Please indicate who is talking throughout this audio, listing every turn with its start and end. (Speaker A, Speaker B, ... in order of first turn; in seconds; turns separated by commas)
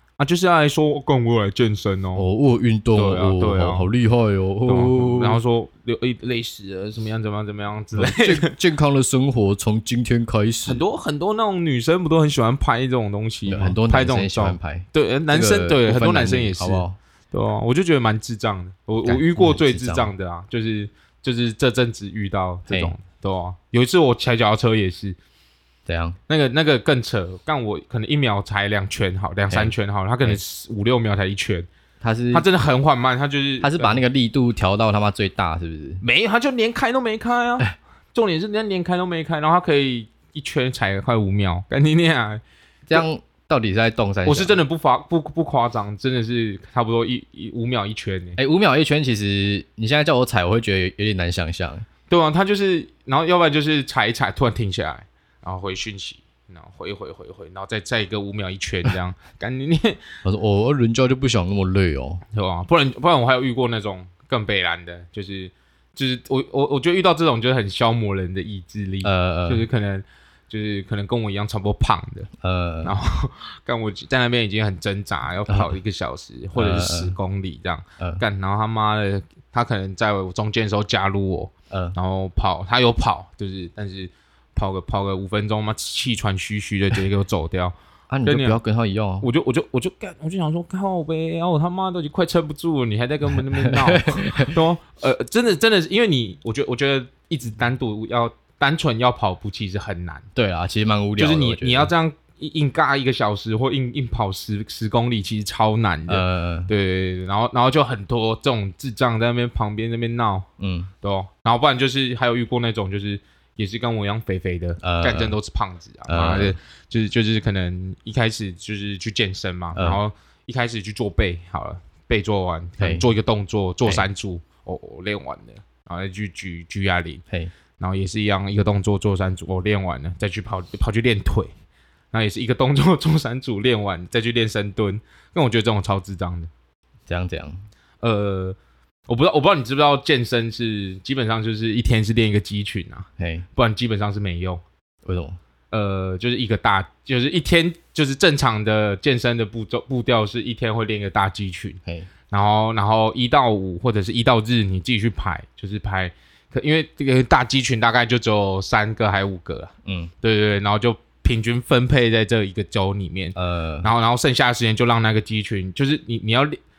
Speaker A: 0.2-2.2, Speaker B: 2.1-5.4, Speaker A: 2.9-3.9, Speaker A: 4.7-8.5, Speaker B: 7.9-10.8, Speaker A: 10.7-25.2, Speaker B: 13.4-16.9, Speaker B: 19.0-20.1, Speaker B: 22.7-22.9, Speaker B: 25.9-26.2, Speaker A: 26.3-31.7, Speaker B: 29.5-30.4, Speaker B: 32.0-32.5, Speaker A: 32.3-34.0, Speaker B: 33.6-36.0, Speaker A: 36.0-42.4, Speaker B: 42.9-44.6, Speaker A: 44.2-48.4, Speaker B: 48.4-51.8, Speaker A: 52.1-60.0, Speaker B: 60.2-62.2, Speaker A: 62.3-72.3, Speaker B: 69.0-69.6, Speaker B: 72.4-73.0, Speaker A: 72.8-87.7, Speaker B: 75.5-75.7, Speaker B: 76.5-77.1, Speaker B: 81.7-82.0, Speaker B: 88.1-89.3, Speaker A: 88.2-88.6, Speaker A: 89.2-100.2, Speaker B: 93.3-94.5, Speaker B: 100.3-101.9, Speaker A: 101.2-110.5, Speaker B: 106.1-106.7, Speaker B: 110.6-110.9, Speaker A: 111.0-127.2, Speaker B: 114.8-115.3, Speaker B: 116.1-116.5, Speaker B: 122.8-123.1, Speaker A: 127.8-131.5, Speaker A: 132.1-136.5, Speaker B: 137.1-137.6, Speaker A: 138.0-138.6, Speaker A: 139.1-144.6, Speaker B: 143.2-143.5, Speaker B: 145.0-145.4, Speaker A: 145.7-166.6, Speaker B: 159.8-160.1, Speaker B: 163.3-163.9